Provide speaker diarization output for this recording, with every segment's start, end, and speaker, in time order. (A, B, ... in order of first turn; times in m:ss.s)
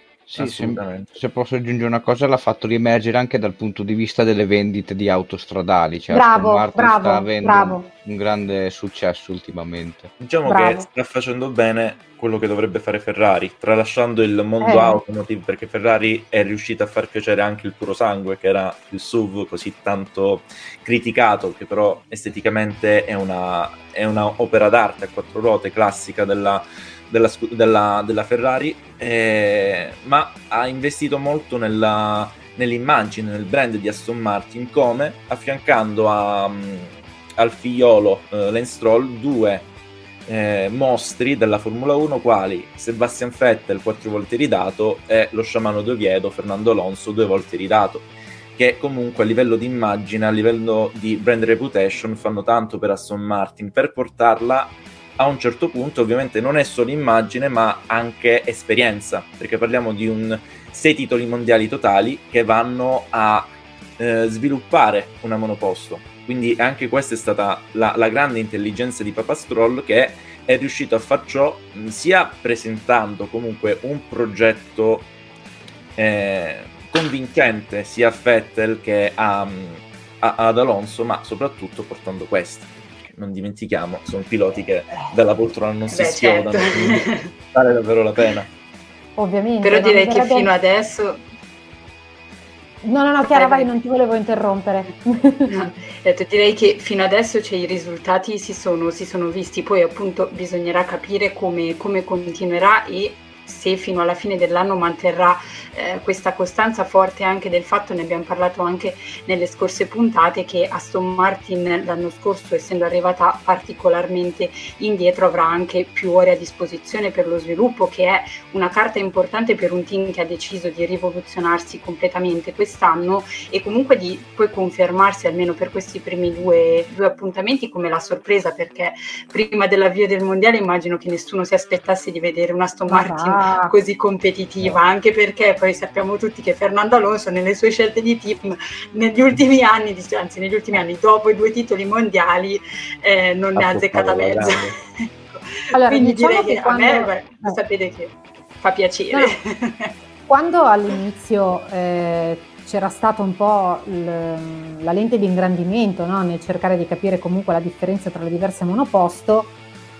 0:00.3-0:10.1 A
0:00.4-0:01.2 B
0:06.1-0:07.9 C
0:10.2-0:39.7 B
0:10.4-0:10.9 C
0:14.6-0:15.0 C
0:40.3-1:15.1 B
1:16.0-1:28.5 B
1:25.9-1:27.3 D
1:29.2-1:30.5 C
1:29.6-1:31.2 D
1:32.8-1:35.5 C
1:33.3-1:33.7 D
1:35.5-2:29.9 D
2:12.9-2:13.7 C
2:23.6-2:24.8 B
2:25.7-2:27.6 C
2:30.3-2:39.5 C